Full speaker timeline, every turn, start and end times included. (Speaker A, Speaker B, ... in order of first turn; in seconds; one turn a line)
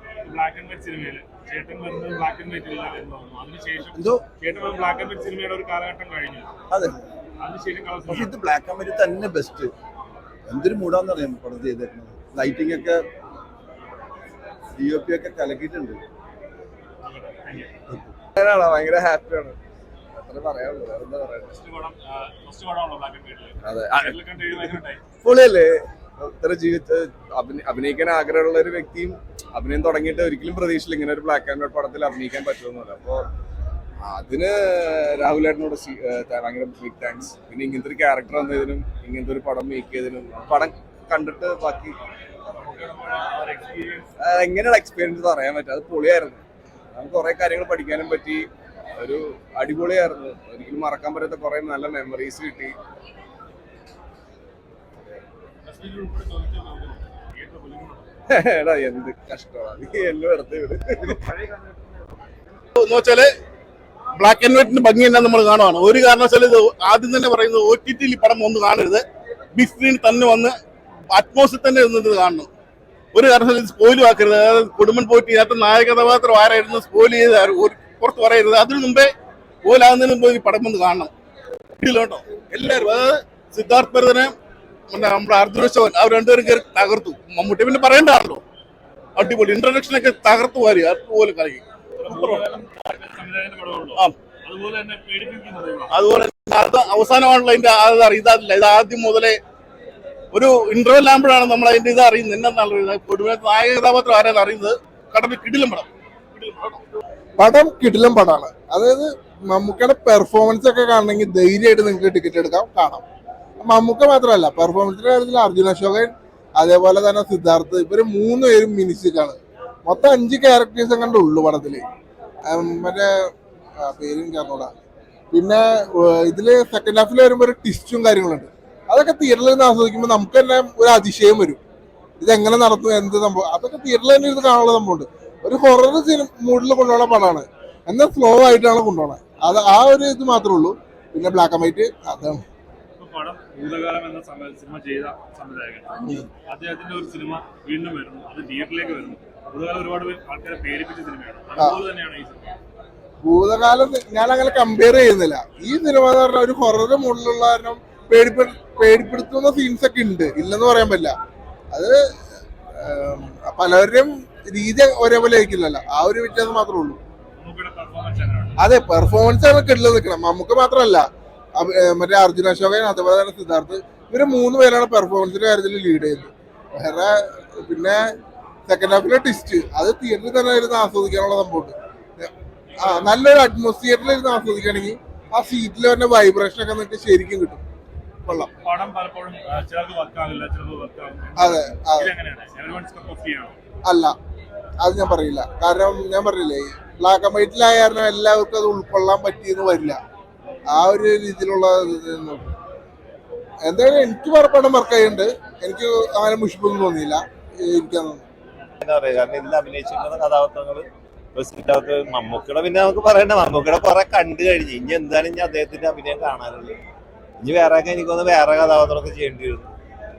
Speaker A: 0.2-6.5
Speaker B: 3.9-4.2
Speaker B: 6.7-7.0
Speaker A: 7.4-8.3
Speaker B: 8.1-9.7
Speaker B: 10.5-13.0
Speaker B: 14.8-16.0
Speaker A: 17.0-17.7
Speaker C: 18.4-19.6
Speaker C: 20.1-21.6
Speaker A: 21.5-25.0
Speaker C: 23.6-24.7
Speaker C: 25.2-33.2
Speaker C: 34.0-42.0
Speaker A: 42.5-44.1
Speaker C: 44.2-52.8
Speaker A: 55.6-58.1
Speaker C: 58.3-61.2
Speaker D: 62.8-63.3
Speaker D: 64.2-70.6
Speaker D: 71.1-72.5
Speaker D: 73.1-81.1
Speaker D: 81.8-84.3
Speaker D: 84.9-88.4
Speaker D: 89.2-92.4
Speaker A: 92.0-95.9
Speaker D: 95.9-99.4
Speaker D: 100.3-106.8
Speaker E: 107.4-113.0
Speaker E: 113.6-121.8
Speaker E: 122.5-123.3
Speaker E: 123.8-124.7
Speaker E: 125.3-131.6
Speaker E: 132.2-142.4
Speaker A: 143.0-152.5
Speaker E: 153.2-161.2
Speaker E: 161.7-162.0
Speaker E: 162.7-167.0
Speaker A: 167.4-168.6
Speaker E: 168.6-171.1
Speaker E: 171.6-178.0
Speaker E: 178.7-187.6
Speaker A: 182.7-183.2
Speaker A: 188.3-193.6
Speaker E: 191.4-192.1
Speaker E: 193.8-194.2
Speaker E: 194.8-200.0
Speaker E: 200.7-202.5
Speaker E: 203.7-208.2
Speaker F: 208.8-216.8
Speaker F: 217.4-219.7